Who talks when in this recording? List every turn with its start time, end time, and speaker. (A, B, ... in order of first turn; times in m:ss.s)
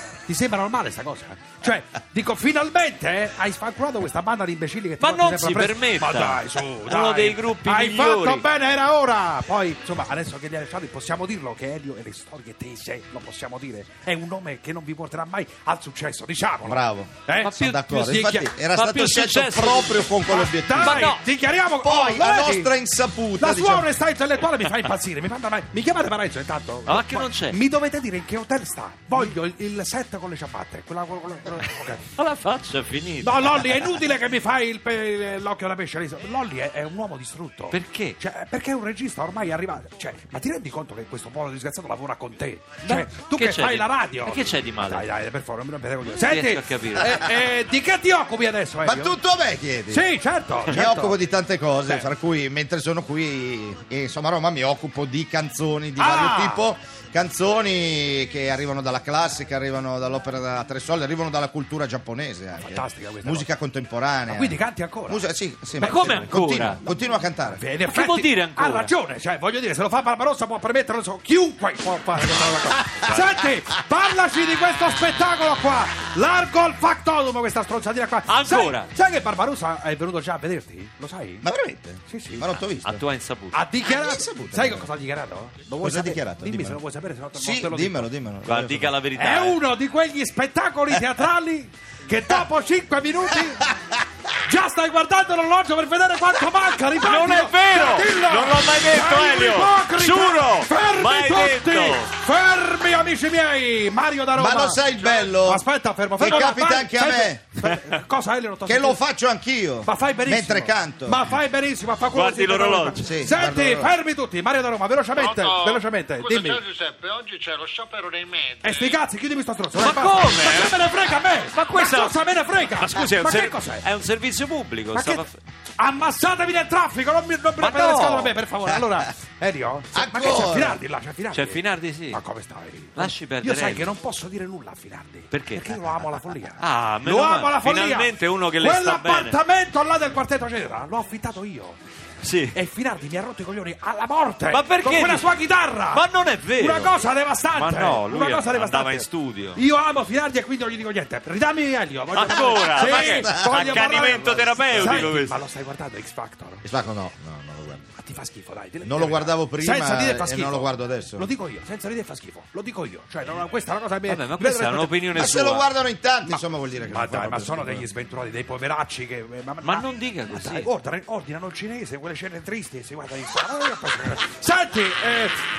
0:00.2-0:18.6 A
0:05.0-0:08.4 B
0:16.6-0:21.0 C
0:17.4-0:17.9 B
0:18.7-0:20.1 B
0:20.3-0:22.7 A
0:20.8-0:21.2 B
0:21.8-0:23.9 C
0:23.4-0:32.1 A
0:26.8-0:27.6 B
0:32.2-0:33.9 B
0:33.2-0:49.2 A
0:37.7-0:38.2 B
0:42.8-0:45.1 B
0:46.1-0:47.4 B
0:48.8-0:50.0 C
0:49.9-0:51.1 A
0:50.7-1:07.6 C
0:56.0-0:56.6 A
1:02.6-1:03.5 A
1:04.3-1:06.3 A
1:05.8-1:06.8 B
1:07.5-1:21.4 A
1:07.9-1:08.9 B
1:13.0-1:13.4 B
1:18.3-1:18.9 B
1:21.4-1:23.0 C
1:22.1-1:22.5 A
1:22.8-1:23.6 B
1:23.5-1:28.1 A
1:23.9-1:24.9 C
1:25.8-1:26.8 C
1:27.3-1:28.9 C
1:28.4-1:29.6 B
1:29.1-1:33.7 A
1:34.4-1:49.0 A
1:37.0-1:42.1 B
1:44.3-1:45.6 C
1:46.2-1:47.4 C
1:46.2-1:46.5 B
1:48.6-1:51.2 C
1:49.8-1:56.6 A
1:52.1-1:53.1 B
1:53.0-1:53.9 C
1:55.2-1:59.0 D
1:58.6-2:03.8 A
1:59.7-2:02.2 B
2:02.8-2:05.4 B
2:04.9-2:05.2 A
2:05.8-2:21.8 A
2:07.6-2:08.4 B
2:09.9-2:10.8 C
2:11.3-2:12.2 B
2:12.9-2:13.9 B
2:15.3-2:19.4 B
2:22.2-2:22.6 B
2:22.5-2:26.0 A
2:24.5-2:25.3 B
2:25.9-2:27.0 B
2:26.6-2:36.6 A
2:27.5-2:29.6 B
2:32.1-2:35.4 B
2:32.2-2:33.7 C
2:36.6-2:37.9 C
2:38.0-2:45.0 A
2:38.8-2:41.3 C
2:44.0-2:45.7 B
2:45.1-2:47.8 C
2:46.9-2:55.4 A
2:49.6-2:50.7 B